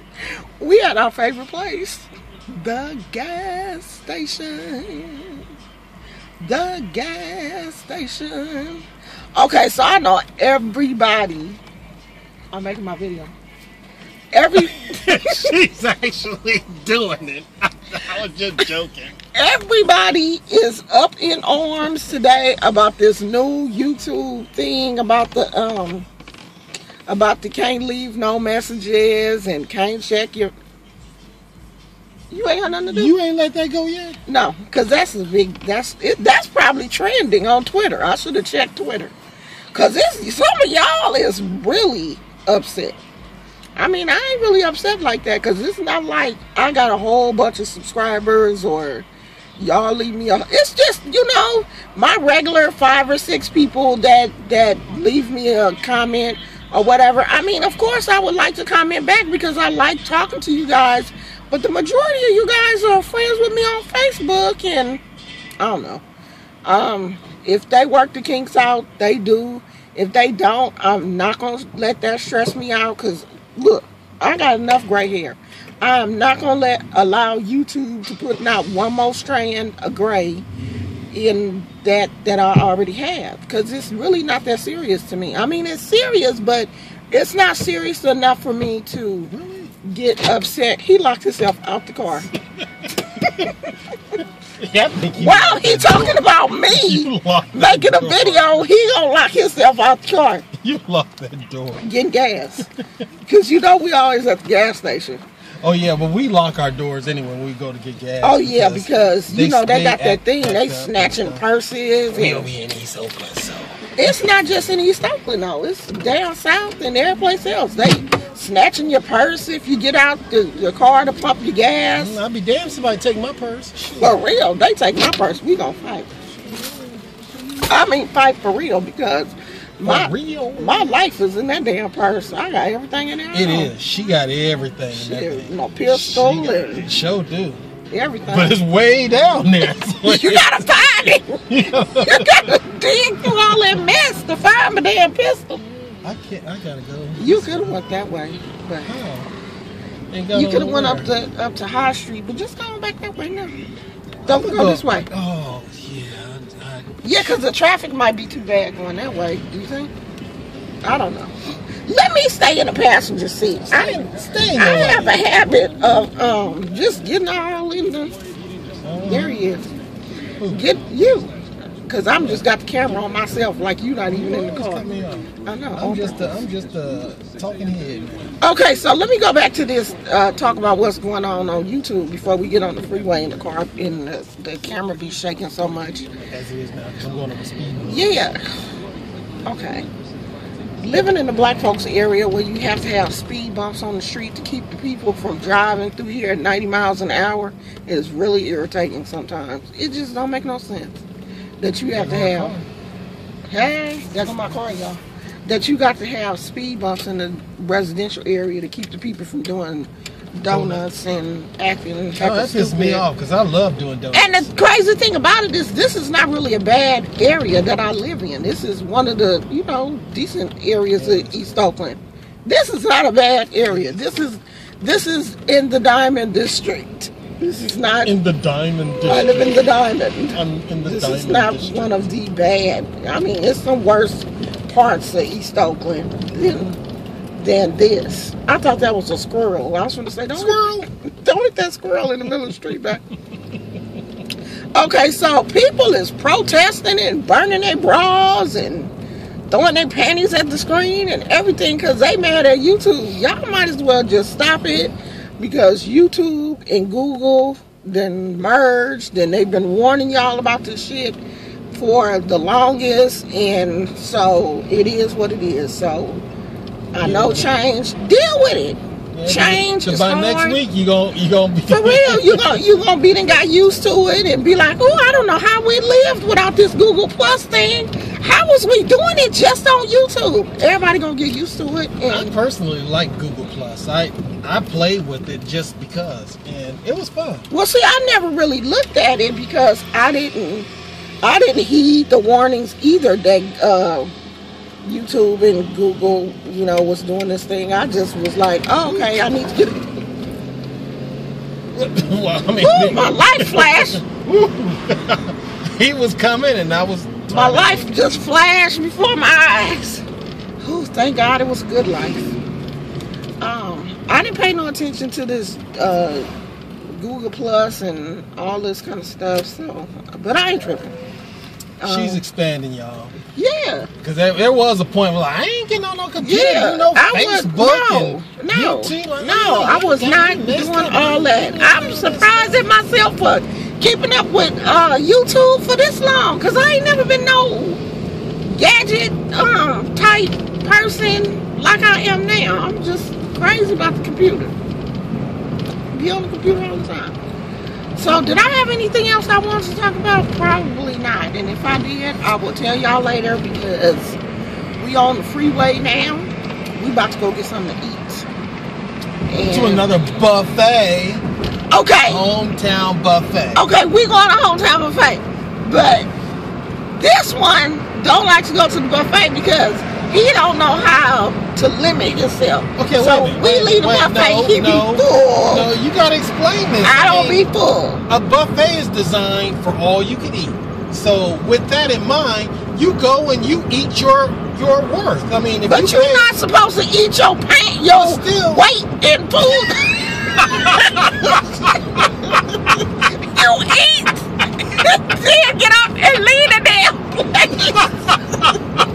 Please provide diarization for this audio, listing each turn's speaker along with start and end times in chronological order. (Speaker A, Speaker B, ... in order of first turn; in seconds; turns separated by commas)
Speaker A: 0.6-5.4, Speaker A: 6.4-8.8, Speaker A: 9.3-11.6, Speaker A: 12.5-13.3, Speaker A: 14.3-15.5, Speaker B: 14.6-19.1, Speaker A: 19.3-26.1, Speaker A: 27.1-30.5, Speaker A: 32.3-33.1, Speaker B: 32.9-34.2, Speaker A: 34.2-39.1, Speaker A: 39.7-43.0, Speaker A: 43.8-65.0, Speaker A: 65.6-66.0, Speaker A: 66.6-80.4, Speaker A: 81.1-89.3, Speaker B: 89.3-89.7, Speaker A: 89.8-92.3, Speaker B: 92.6-93.5, Speaker A: 93.4-93.7, Speaker B: 94.6-98.6, Speaker A: 95.2-100.5, Speaker B: 100.6-101.8, Speaker A: 101.8-102.7, Speaker A: 103.2-105.2, Speaker B: 105.6-111.4, Speaker A: 108.2-112.5, Speaker B: 112.1-114.1, Speaker A: 114.0-122.2, Speaker B: 121.9-124.2, Speaker A: 124.0-126.1, Speaker A: 127.7-133.7, Speaker B: 129.8-130.8, Speaker B: 133.3-137.6, Speaker A: 134.9-136.8, Speaker A: 137.9-138.6, Speaker B: 138.3-140.8, Speaker A: 140.0-145.6, Speaker B: 141.5-142.4, Speaker B: 146.0-147.8, Speaker A: 147.2-148.9, Speaker B: 148.8-149.3, Speaker B: 150.1-151.1, Speaker A: 150.3-153.6, Speaker A: 154.2-155.1, Speaker B: 154.2-157.4, Speaker A: 157.0-159.9, Speaker A: 160.8-168.1, Speaker B: 163.7-165.2, Speaker B: 168.8-169.5, Speaker A: 169.1-169.7, Speaker B: 170.4-170.7, Speaker A: 170.5-171.3, Speaker A: 171.9-174.9, Speaker B: 174.1-178.3, Speaker A: 175.4-176.3, Speaker A: 178.4-186.1, Speaker B: 186.3-188.0, Speaker A: 187.8-188.4, Speaker A: 189.4-189.8, Speaker A: 190.8-201.0, Speaker A: 201.6-202.6, Speaker B: 201.9-202.7, Speaker A: 203.5-213.0, Speaker B: 210.5-210.8, Speaker B: 212.2-214.5, Speaker A: 214.1-228.1, Speaker B: 221.0-221.6, Speaker B: 223.7-224.2, Speaker B: 228.0-229.6, Speaker A: 229.0-236.8, Speaker B: 230.3-231.9, Speaker A: 237.4-240.6, Speaker B: 240.3-240.9, Speaker A: 241.2-243.0, Speaker A: 244.7-248.9, Speaker A: 249.5-261.2, Speaker A: 261.7-266.2, Speaker A: 266.9-270.6, Speaker B: 267.0-267.5, Speaker B: 269.1-272.4, Speaker A: 271.7-282.3, Speaker B: 282.1-287.4, Speaker A: 287.5-290.7, Speaker A: 291.2-294.1, Speaker A: 294.8-299.8, Speaker B: 301.7-308.0, Speaker A: 302.6-304.0, Speaker A: 307.3-310.1, Speaker A: 310.6-312.3, Speaker A: 313.4-316.3, Speaker A: 316.9-320.9, Speaker A: 321.8-322.2, Speaker B: 321.8-323.1, Speaker A: 323.4-323.9, Speaker B: 324.0-332.7, Speaker A: 326.2-337.8, Speaker A: 338.4-344.5, Speaker A: 345.9-347.2, Speaker A: 347.9-354.2, Speaker A: 354.8-358.3, Speaker A: 359.3-359.9, Speaker B: 359.5-361.2, Speaker A: 361.7-362.2, Speaker B: 362.1-363.6, Speaker A: 363.5-366.1, Speaker A: 366.9-375.7, Speaker B: 372.8-377.4, Speaker A: 376.8-378.0, Speaker B: 378.1-386.3, Speaker A: 385.6-397.9, Speaker B: 387.9-388.7, Speaker B: 389.7-391.4, Speaker B: 397.7-398.6